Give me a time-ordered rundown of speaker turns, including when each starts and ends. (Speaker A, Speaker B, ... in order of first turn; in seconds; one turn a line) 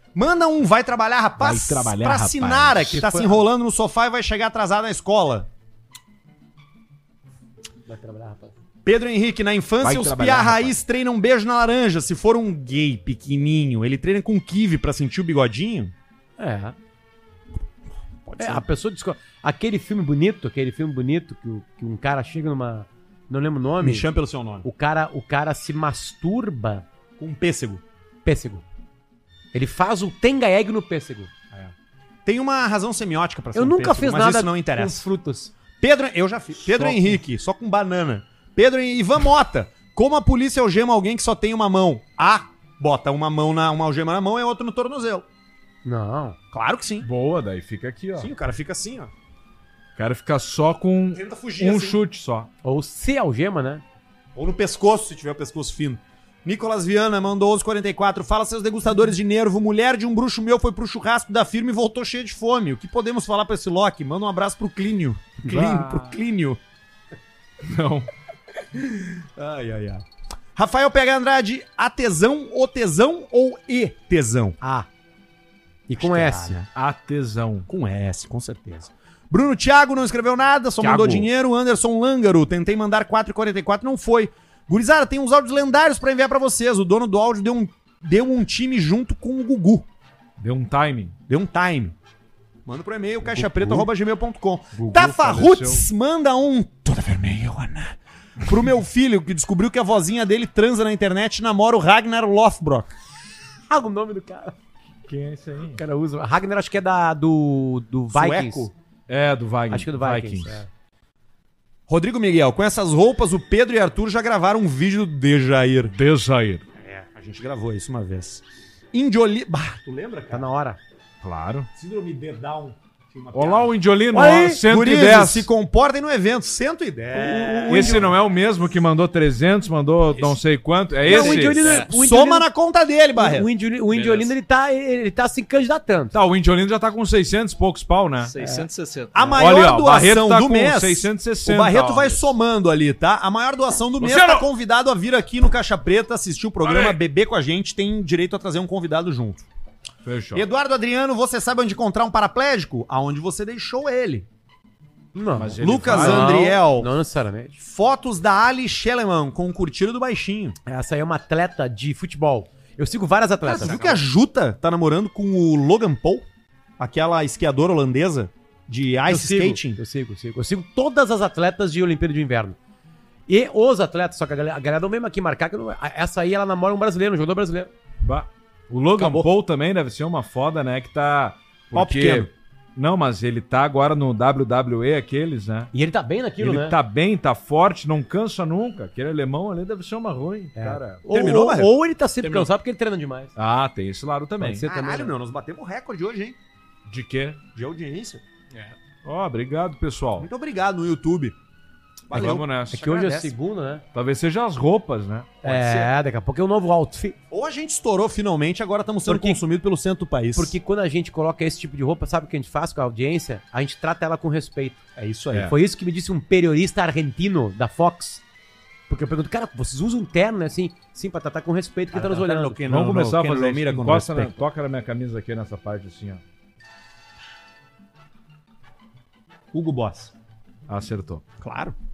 Speaker A: 0.1-5.5
Speaker B: 1.4-3.0
Speaker C: 2.9-3.5
Speaker C: 7.9-8.5
Speaker A: 8.8-15.9
Speaker B: 9.8-10.8
Speaker C: 16.4-16.8
Speaker A: 18.3-18.7
Speaker C: 18.4-24.1
Speaker A: 23.8-24.7
Speaker C: 24.6-26.8
Speaker A: 27.2-27.8
Speaker C: 28.2-28.6
Speaker C: 29.5-31.3
Speaker A: 32.3-35.0
Speaker C: 33.5-35.5
Speaker A: 35.8-45.2
Speaker C: 36.8-37.2
Speaker C: 45.8-46.4
Speaker A: 46.5-47.1
Speaker B: 47.0-48.3
Speaker A: 48.2-49.1
Speaker B: 50.0-52.5
Speaker A: 51.1-52.0
Speaker C: 52.6-53.8
Speaker A: 54.4-66.6
Speaker B: 65.5-66.2
Speaker B: 67.6-68.1
Speaker A: 68.8-70.0
Speaker A: 70.6-74.6
Speaker C: 74.6-74.9
Speaker C: 75.9-76.6
Speaker A: 76.0-76.7
Speaker B: 76.7-77.7
Speaker A: 77.7-89.9
Speaker B: 80.8-81.3
Speaker B: 90.4-91.2
Speaker A: 91.3-92.0
Speaker A: 92.7-102.9
Speaker B: 93.3-93.9
Speaker B: 94.7-95.9
Speaker C: 103.7-104.5
Speaker B: 105.1-105.8
Speaker C: 105.8-108.7
Speaker A: 108.1-108.7
Speaker B: 109.1-110.6
Speaker C: 109.7-110.7
Speaker A: 111.9-116.0
Speaker B: 115.9-116.7
Speaker A: 116.8-120.5
Speaker C: 120.3-120.8
Speaker B: 121.2-121.7
Speaker A: 121.8-123.7
Speaker B: 123.3-125.5
Speaker C: 124.1-124.6
Speaker A: 124.5-128.1
Speaker C: 127.1-128.1
Speaker B: 127.7-131.9
Speaker C: 131.0-132.5
Speaker A: 131.8-133.5
Speaker C: 133.2-136.1
Speaker B: 133.9-134.3
Speaker B: 136.1-142.3
Speaker C: 138.3-139.4
Speaker A: 139.1-149.5
Speaker B: 144.0-144.5
Speaker B: 146.6-147.0
Speaker B: 150.1-150.4
Speaker A: 150.3-154.3
Speaker C: 155.1-157.6
Speaker B: 155.3-156.5
Speaker A: 155.6-156.9
Speaker A: 157.6-160.6
Speaker C: 160.7-164.0
Speaker A: 163.4-166.2
Speaker A: 166.8-169.8
Speaker C: 169.1-172.6
Speaker C: 173.3-177.7
Speaker B: 178.0-185.7
Speaker C: 179.0-179.3
Speaker A: 181.7-182.3
Speaker C: 185.7-186.8
Speaker B: 186.4-191.0
Speaker C: 190.6-193.3
Speaker A: 191.1-191.7
Speaker B: 193.4-194.7
Speaker C: 194.4-195.1
Speaker A: 194.6-196.4
Speaker B: 196.9-197.4
Speaker A: 197.6-198.2
Speaker B: 199.0-200.3
Speaker A: 200.2-201.4
Speaker A: 202.1-202.5
Speaker B: 202.1-203.3
Speaker C: 202.7-203.8
Speaker B: 203.9-205.5
Speaker A: 205.4-205.9
Speaker C: 205.4-207.2
Speaker A: 207.3-210.6
Speaker C: 209.1-209.4
Speaker C: 210.3-214.8
Speaker A: 215.0-215.5
Speaker C: 215.4-218.2
Speaker C: 218.9-222.6
Speaker A: 221.9-224.4
Speaker B: 222.7-226.2
Speaker A: 229.5-230.1
Speaker B: 230.7-231.2
Speaker A: 231.4-231.8